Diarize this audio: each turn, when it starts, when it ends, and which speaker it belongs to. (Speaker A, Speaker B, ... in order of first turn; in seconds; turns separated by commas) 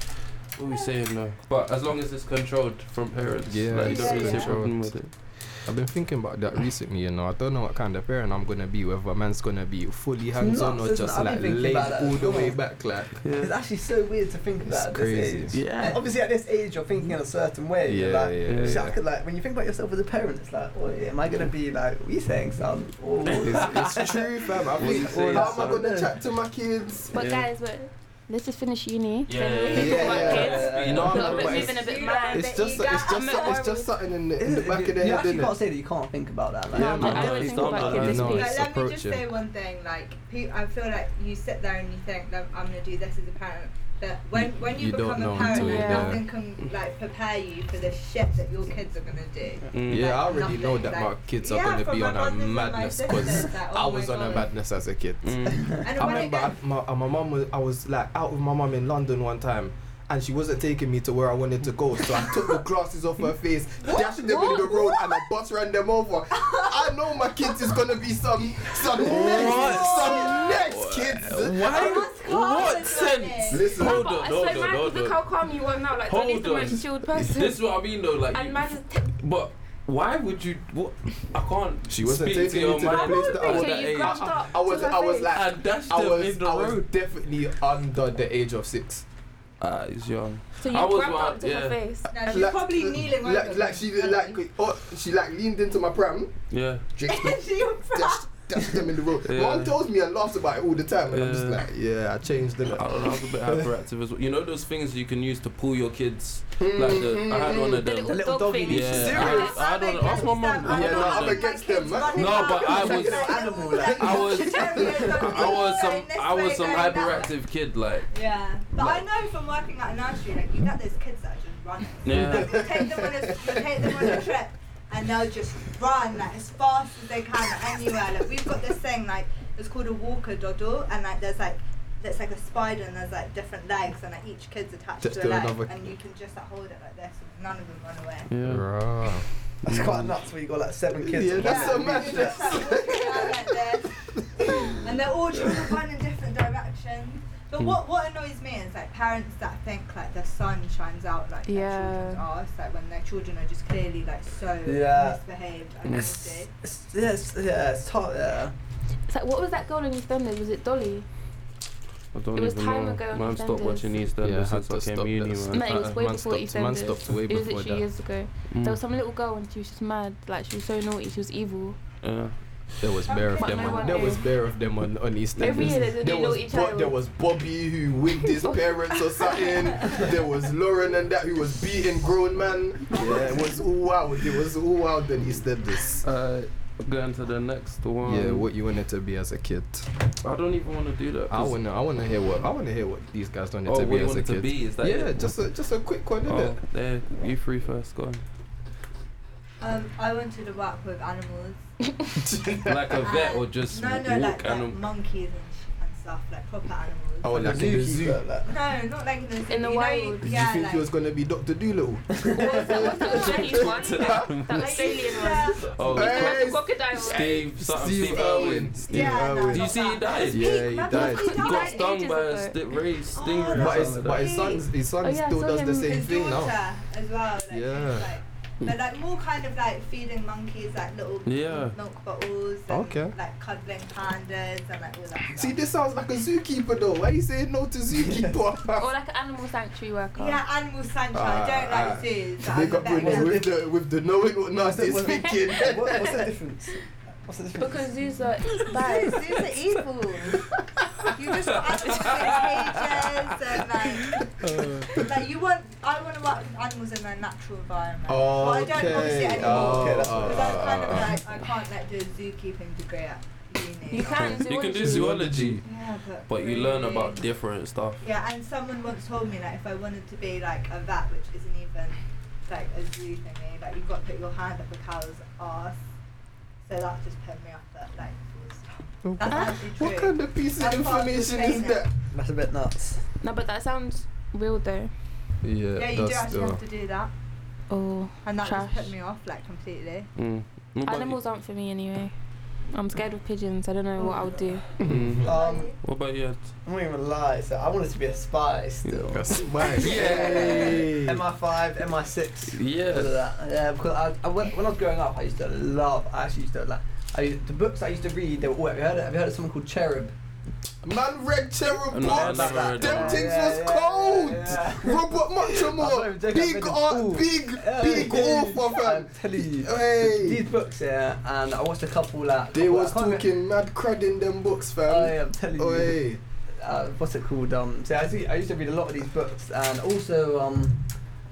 Speaker A: 0.6-5.6, Speaker B: 3.5-5.1, Speaker C: 3.9-4.6, Speaker B: 5.6-13.2, Speaker D: 10.3-12.7, Speaker A: 13.2-13.5, Speaker D: 13.3-26.2, Speaker B: 14.7-15.6, Speaker A: 15.5-16.0, Speaker B: 17.9-19.0, Speaker A: 18.4-18.9, Speaker A: 23.3-24.0, Speaker B: 23.4-27.2, Speaker A: 24.7-25.9, Speaker A: 27.1-27.5, Speaker E: 27.1-33.9, Speaker A: 29.3-31.7, Speaker B: 29.7-35.6, Speaker D: 29.8-31.4, Speaker C: 31.5-33.7, Speaker D: 34.4-37.7, Speaker B: 36.7-39.2, Speaker E: 36.7-38.6, Speaker A: 36.8-38.6, Speaker C: 38.3-54.5, Speaker B: 44.6-46.2, Speaker E: 45.4-46.2, Speaker A: 49.7-50.1, Speaker B: 49.9-72.0, Speaker A: 55.2-55.8, Speaker D: 55.5-55.9, Speaker C: 55.8-56.6, Speaker C: 63.8-65.2, Speaker E: 64.3-64.6, Speaker C: 66.3-67.8, Speaker C: 68.9-70.6, Speaker A: 69.0-75.2, Speaker C: 71.7-73.6, Speaker B: 73.5-74.1, Speaker E: 73.8-77.6, Speaker A: 76.0-84.4, Speaker E: 78.3-79.1, Speaker B: 81.9-89.0, Speaker C: 82.9-83.5, Speaker E: 83.0-85.3, Speaker A: 85.3-86.9, Speaker A: 89.6-91.8, Speaker E: 90.6-92.5, Speaker B: 92.1-103.1, Speaker C: 92.1-94.4, Speaker A: 96.5-96.8, Speaker C: 97.0-98.3, Speaker A: 99.2-99.7, Speaker A: 101.1-101.7, Speaker A: 102.8-111.5, Speaker B: 106.6-107.8, Speaker E: 107.8-109.6, Speaker D: 108.1-109.6, Speaker C: 109.2-117.3, Speaker B: 110.6-113.4, Speaker A: 112.1-118.1, Speaker D: 112.7-115.5, Speaker C: 118.1-138.3, Speaker A: 122.0-122.7, Speaker B: 122.2-123.6, Speaker B: 135.0-135.7, Speaker A: 138.3-138.7, Speaker B: 138.4-139.3, Speaker D: 139.6-142.7, Speaker A: 139.7-140.1, Speaker B: 141.1-143.6, Speaker C: 141.4-156.5, Speaker B: 144.2-144.8, Speaker E: 151.5-152.2, Speaker D: 154.7-155.2, Speaker A: 155.8-156.1, Speaker D: 155.9-158.5, Speaker E: 159.1-161.1, Speaker A: 162.1-165.7, Speaker E: 162.4-163.9, Speaker B: 164.2-167.8, Speaker E: 165.5-171.8, Speaker A: 168.5-168.8, Speaker A: 172.0-172.3, Speaker B: 172.8-186.1, Speaker C: 173.1-174.2, Speaker E: 173.4-174.3, Speaker E: 175.4-176.9, Speaker A: 175.5-175.8, Speaker E: 178.3-179.5, Speaker C: 179.8-180.1, Speaker A: 186.0-188.5, Speaker B: 188.0-189.9, Speaker A: 190.2-191.6, Speaker B: 191.3-196.6, Speaker A: 193.7-195.1, Speaker A: 196.2-198.2, Speaker C: 199.6-201.7, Speaker B: 202.2-203.1, Speaker A: 202.6-204.8, Speaker C: 203.0-207.3, Speaker B: 207.2-208.2, Speaker D: 207.3-208.5, Speaker C: 208.5-210.9, Speaker E: 209.5-210.3, Speaker B: 210.2-214.7, Speaker D: 212.1-212.9, Speaker E: 212.3-217.4, Speaker C: 212.8-213.3, Speaker A: 213.4-214.7, Speaker C: 214.5-215.7, Speaker A: 215.7-224.3, Speaker B: 215.8-221.4, Speaker C: 217.9-221.9, Speaker E: 220.9-222.6, Speaker C: 223.2-224.7, Speaker B: 223.5-226.6, Speaker D: 223.6-224.0, Speaker E: 225.0-226.0, Speaker C: 225.9-235.6, Speaker B: 227.5-228.1, Speaker A: 231.3-231.8, Speaker B: 232.7-233.1, Speaker B: 235.3-238.9, Speaker D: 238.0-238.3, Speaker E: 238.8-240.4, Speaker C: 240.2-243.4, Speaker B: 241.1-246.2, Speaker D: 242.8-243.6, Speaker D: 244.6-247.9, Speaker E: 247.6-249.4, Speaker C: 248.7-250.5, Speaker C: 251.0-264.4, Speaker A: 251.4-253.9, Speaker B: 254.4-255.1, Speaker A: 254.6-255.0, Speaker B: 258.1-261.2, Speaker D: 258.9-260.7, Speaker E: 263.9-265.2, Speaker A: 264.1-265.7, Speaker B: 264.2-265.6, Speaker C: 265.6-267.2, Speaker A: 266.3-268.0, Speaker C: 268.0-275.8, Speaker C: 276.6-281.9, Speaker B: 279.1-281.9, Speaker D: 282.1-283.0, Speaker E: 283.2-284.9, Speaker B: 285.4-286.6, Speaker C: 285.8-287.1, Speaker E: 287.7-288.9, Speaker C: 288.2-290.1, Speaker A: 290.2-291.2, Speaker E: 290.9-292.1, Speaker E: 292.7-294.7, Speaker B: 294.8-295.3, Speaker A: 294.9-296.5, Speaker D: 295.2-295.7, Speaker C: 295.3-295.7, Speaker D: 296.6-310.1, Speaker B: 299.1-301.3, Speaker A: 299.8-300.8, Speaker A: 302.5-303.1, Speaker B: 310.8-320.4, Speaker A: 311.9-313.3, Speaker D: 311.9-323.3, Speaker B: 322.5-326.2, Speaker D: 324.9-326.1, Speaker D: 326.6-330.8